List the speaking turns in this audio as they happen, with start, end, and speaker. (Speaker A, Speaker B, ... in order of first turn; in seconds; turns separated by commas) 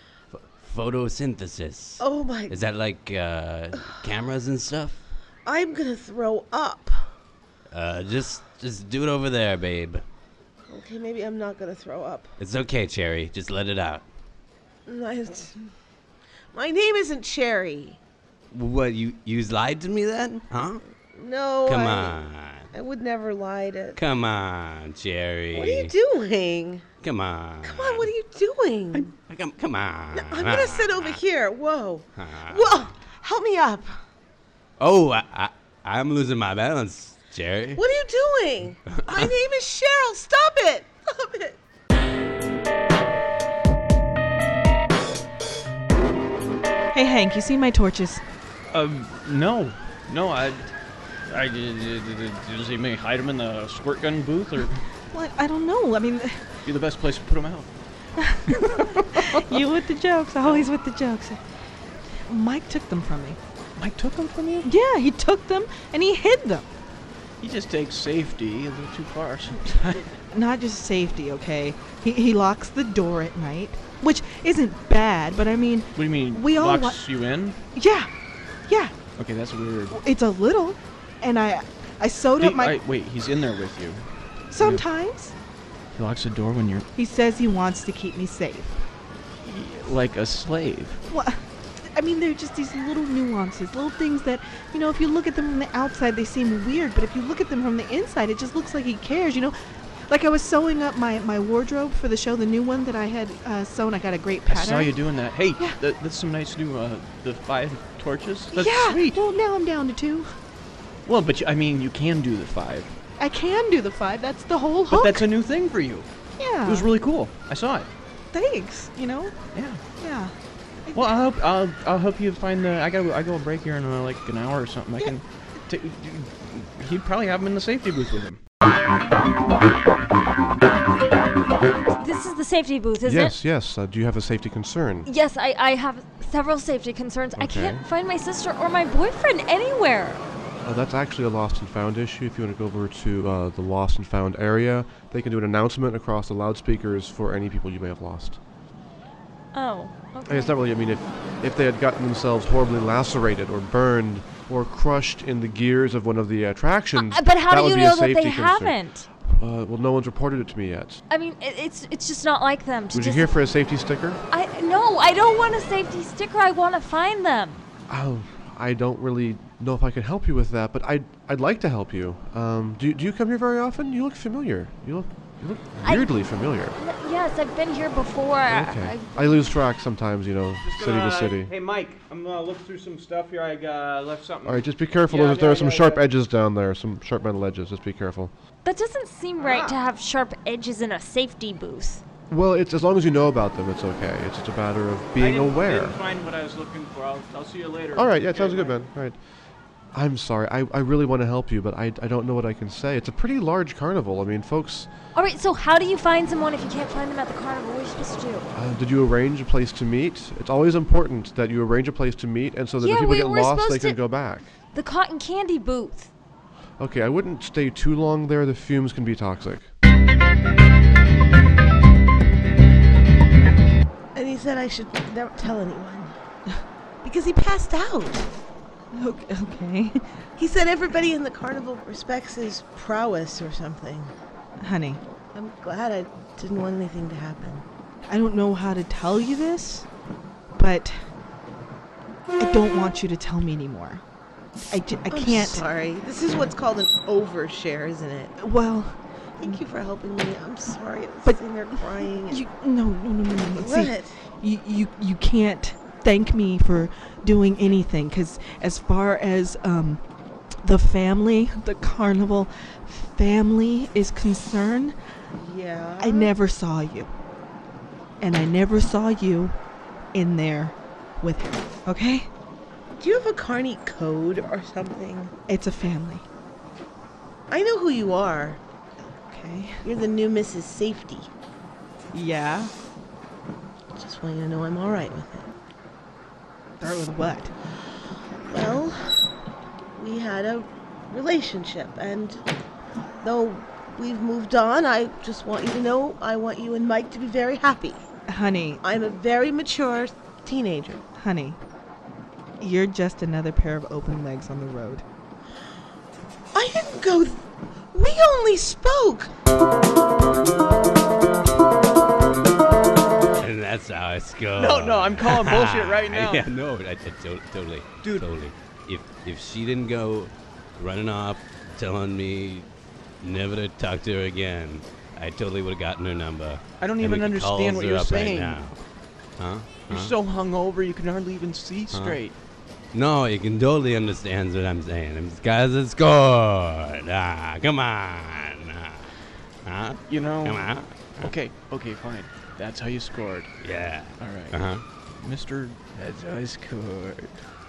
Speaker A: 0.3-5.0, Speaker B: 2.0-2.6, Speaker B: 3.8-4.0, Speaker B: 5.5-7.1, Speaker A: 7.7-10.1, Speaker B: 10.7-12.3, Speaker A: 12.4-14.1, Speaker B: 14.9-15.7, Speaker B: 16.5-18.0, Speaker A: 18.5-20.8, Speaker B: 21.1-24.0, Speaker A: 21.7-22.7, Speaker A: 23.9-25.9, Speaker B: 25.5-26.9, Speaker A: 27.0-28.1, Speaker B: 27.6-29.1, Speaker A: 28.9-31.2, Speaker B: 30.1-33.9, Speaker A: 32.2-32.7, Speaker A: 34.8-37.8, Speaker B: 37.8-41.6, Speaker A: 38.9-39.3, Speaker C: 46.9-48.2, Speaker D: 48.7-50.7, Speaker D: 51.3-54.8, Speaker C: 55.1-56.7, Speaker D: 56.6-57.7, Speaker C: 58.2-61.4, Speaker D: 58.7-59.4, Speaker C: 62.3-63.4, Speaker D: 63.8-64.7, Speaker C: 64.6-66.7, Speaker D: 67.4-70.1, Speaker C: 70.3-78.1, Speaker D: 76.0-77.6, Speaker C: 78.7-79.0, Speaker D: 79.2-80.0, Speaker C: 79.9-82.8, Speaker D: 82.4-84.1, Speaker C: 84.5-85.3, Speaker D: 84.6-84.9, Speaker D: 85.9-86.9, Speaker C: 86.9-88.8, Speaker D: 89.4-91.0, Speaker C: 91.1-91.4, Speaker C: 91.9-99.5, Speaker C: 100.1-105.8, Speaker D: 104.5-109.2, Speaker C: 108.5-110.3, Speaker D: 111.0-113.0, Speaker C: 113.2-115.3, Speaker D: 114.9-116.1, Speaker C: 116.4-116.9, Speaker D: 116.7-117.9, Speaker C: 118.3-119.4, Speaker D: 119.5-119.8, Speaker C: 120.0-120.3, Speaker C: 120.9-121.2, Speaker D: 121.0-128.4, Speaker E: 132.0-133.4, Speaker F: 133.0-135.1, Speaker E: 135.1-140.2, Speaker F: 137.4-137.8, Speaker F: 140.6-148.4, Speaker E: 149.5-150.5, Speaker F: 150.3-161.0, Speaker E: 156.9-159.1, Speaker E: 161.1-163.3, Speaker F: 162.9-164.2, Speaker E: 164.3-167.7, Speaker F: 167.9-176.8, Speaker E: 175.8-176.1, Speaker E: 176.8-179.5, Speaker F: 178.5-181.5, Speaker D: 180.6-186.1, Speaker F: 184.4-188.3, Speaker E: 188.6-192.0, Speaker D: 189.4-189.8, Speaker F: 192.3-196.0, Speaker D: 195.2-198.8, Speaker F: 197.9-199.2, Speaker F: 199.9-204.9, Speaker E: 205.2-208.5, Speaker F: 208.5-214.5, Speaker E: 212.8-216.1, Speaker F: 216.8-219.7, Speaker B: 224.2-226.2, Speaker B: 227.0-228.3, Speaker C: 228.9-230.0, Speaker B: 230.4-234.1, Speaker C: 234.6-235.0, Speaker B: 235.3-237.7, Speaker C: 238.1-239.9, Speaker C: 240.6-240.9, Speaker C: 242.4-244.0, Speaker C: 244.7-245.7, Speaker B: 245.1-248.3, Speaker C: 248.4-249.6, Speaker B: 249.4-252.4, Speaker C: 251.2-260.0, Speaker B: 253.6-254.2, Speaker C: 260.6-265.0, Speaker B: 265.4-266.4, Speaker C: 266.0-267.1, Speaker C: 268.2-269.6, Speaker C: 270.1-272.3, Speaker B: 273.0-275.3, Speaker C: 275.5-276.2, Speaker B: 277.5-278.6, Speaker C: 279.2-279.8, Speaker B: 279.9-281.3, Speaker C: 282.1-282.7, Speaker B: 284.0-285.5, Speaker C: 286.8-287.5, Speaker B: 288.5-289.2, Speaker B: 290.0-292.4, Speaker B: 293.2-298.1, Speaker C: 298.3-298.8, Speaker B: 298.8-301.0, Speaker C: 301.2-301.6, Speaker C: 302.6-305.0, Speaker B: 306.5-309.3, Speaker A: 313.4-322.7, Speaker D: 314.6-316.5, Speaker D: 318.0-318.3, Speaker A: 323.2-328.8, Speaker D: 326.8-328.7, Speaker A: 329.4-330.1, Speaker D: 329.9-332.4, Speaker A: 331.9-332.2, Speaker A: 332.9-339.1, Speaker A: 339.6-341.4, Speaker D: 340.1-343.6, Speaker A: 343.6-344.8, Speaker D: 344.2-344.6, Speaker D: 345.1-347.4